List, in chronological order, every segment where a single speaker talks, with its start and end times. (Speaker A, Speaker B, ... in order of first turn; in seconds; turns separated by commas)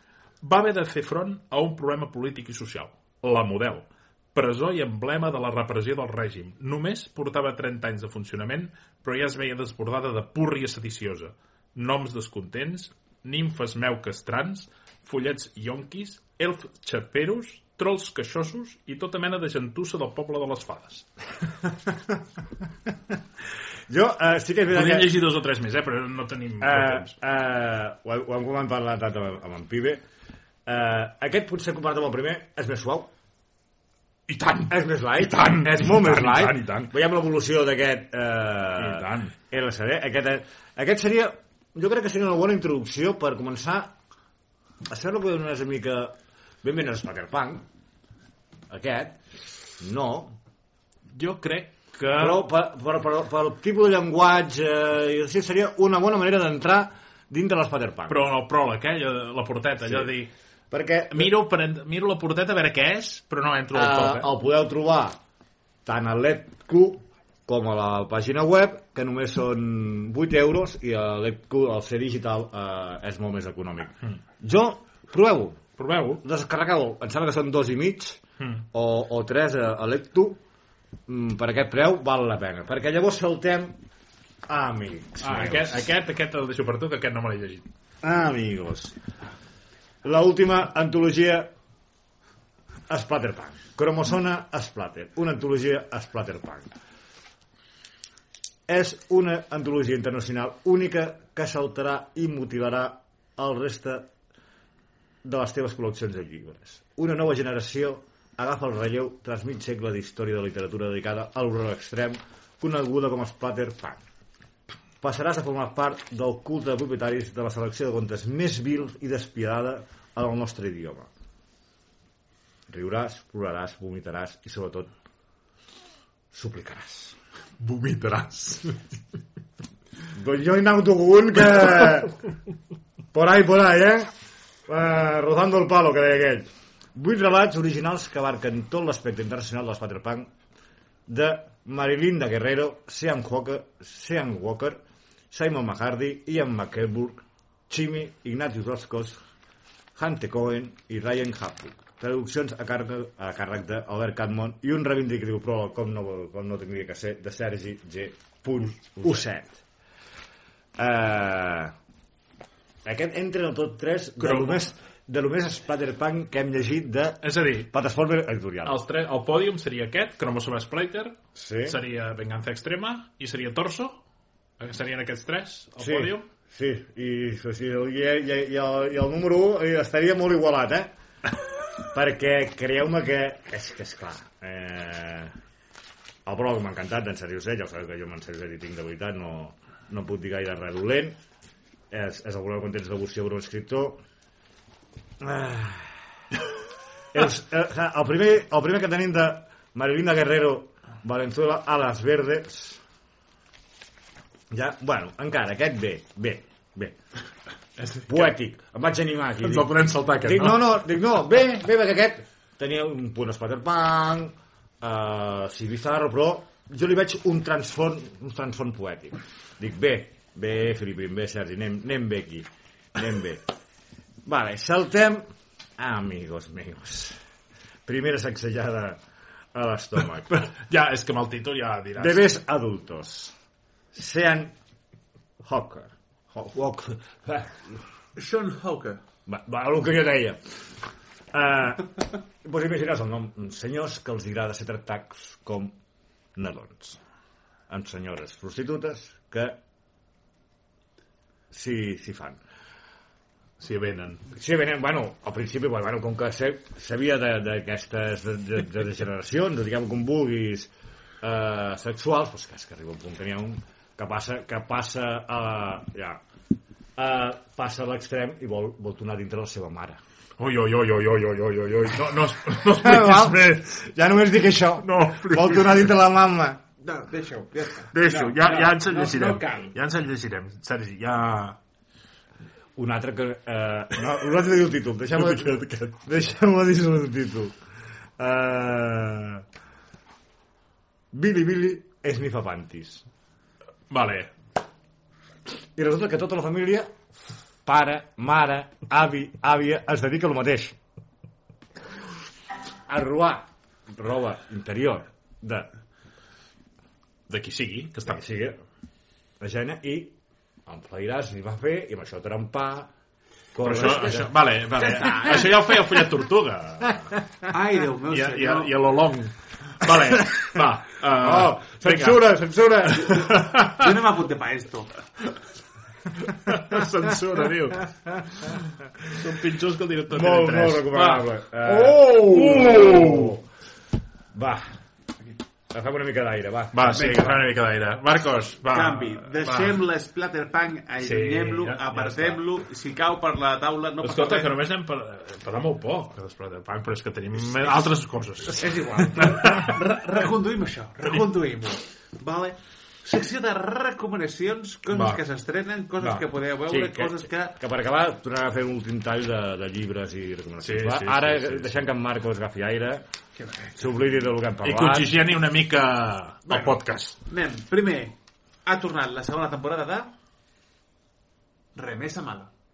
Speaker A: 0.4-21.1, Speaker B: 21.7-22.2, Speaker B: 23.9-25.1, Speaker A: 24.7-27.1, Speaker B: 26.6-30.0, Speaker B: 30.6-33.1, Speaker A: 34.3-36.9, Speaker B: 34.7-43.9, Speaker A: 38.8-39.3, Speaker B: 44.9-47.6, Speaker B: 48.7-49.2, Speaker B: 49.8-50.4, Speaker A: 51.1-52.4, Speaker B: 52.1-58.2, Speaker A: 58.1-60.3, Speaker B: 59.8-60.1, Speaker B: 60.7-61.3, Speaker A: 61.1-64.3, Speaker B: 63.7-65.2, Speaker B: 65.9-75.6, Speaker A: 75.8-76.2, Speaker B: 76.2-78.2, Speaker B: 78.7-80.4, Speaker B: 81.1-83.8, Speaker B: 84.5-85.9, Speaker A: 85.2-87.7, Speaker B: 88.0-89.0, Speaker B: 90.0-91.5, Speaker B: 92.9-96.7, Speaker B: 98.7-104.1, Speaker B: 105.2-114.0, Speaker B: 115.0-121.1, Speaker B: 122.7-124.9, Speaker B: 126.3-127.2, Speaker A: 127.6-128.8, Speaker B: 130.1-132.2, Speaker B: 133.1-134.1, Speaker B: 134.7-140.3, Speaker B: 141.1-149.2, Speaker B: 149.9-159.6, Speaker B: 160.8-161.7, Speaker B: 162.8-168.8, Speaker A: 164.2-164.6, Speaker A: 167.2-167.7, Speaker A: 168.6-174.0, Speaker B: 171.4-171.8, Speaker A: 174.6-176.3, Speaker B: 175.8-180.9, Speaker B: 181.8-185.3, Speaker B: 186.3-191.2, Speaker B: 191.9-194.0, Speaker B: 195.2-196.0, Speaker B: 197.1-202.8, Speaker B: 204.5-207.0, Speaker A: 207.8-208.3, Speaker B: 208.1-223.4, Speaker A: 209.4-210.7, Speaker B: 224.3-225.2, Speaker B: 225.8-227.2, Speaker B: 227.9-229.0, Speaker B: 229.5-230.4, Speaker A: 230.3-232.3, Speaker B: 232.0-233.3, Speaker B: 233.9-234.5, Speaker B: 235.4-237.8, Speaker C: 238.2-239.0, Speaker B: 239.3-240.4, Speaker B: 241.3-245.7, Speaker B: 246.4-247.0, Speaker B: 247.7-249.6, Speaker B: 251.5-252.4, Speaker A: 253.6-254.2, Speaker B: 254.3-266.2, Speaker B: 267.0-270.0, Speaker A: 270.4-273.6, Speaker B: 272.6-276.6, Speaker A: 274.8-275.9, Speaker C: 276.8-279.7, Speaker A: 277.9-281.6, Speaker B: 282.8-287.6, Speaker A: 285.3-285.6, Speaker B: 288.2-289.4, Speaker B: 291.1-293.1, Speaker A: 293.9-294.3, Speaker B: 295.8-296.9, Speaker B: 297.6-300.8, Speaker B: 302.9-305.7, Speaker A: 307.3-308.2, Speaker B: 308.1-308.6, Speaker B: 309.4-310.1, Speaker B: 310.6-312.9, Speaker B: 313.5-314.3, Speaker A: 313.6-317.2, Speaker C: 315.0-315.4, Speaker B: 315.1-315.4, Speaker C: 317.4-318.8, Speaker A: 318.1-324.0, Speaker B: 320.1-320.6, Speaker B: 321.1-323.3, Speaker C: 323.2-324.9, Speaker A: 326.2-333.4, Speaker B: 330.1-333.4, Speaker C: 331.8-332.8, Speaker B: 334.3-334.7, Speaker B: 335.7-337.1, Speaker A: 336.7-339.8, Speaker C: 336.9-337.4, Speaker C: 338.7-344.5, Speaker A: 341.0-342.4, Speaker A: 344.0-349.8, Speaker C: 347.4-347.8, Speaker C: 348.5-357.6, Speaker A: 354.9-355.2, Speaker A: 356.0-356.3, Speaker B: 356.7-363.1, Speaker A: 360.6-361.8, Speaker C: 363.4-363.9, Speaker B: 363.8-365.2, Speaker A: 364.6-367.2, Speaker C: 366.5-370.1, Speaker C: 371.7-372.5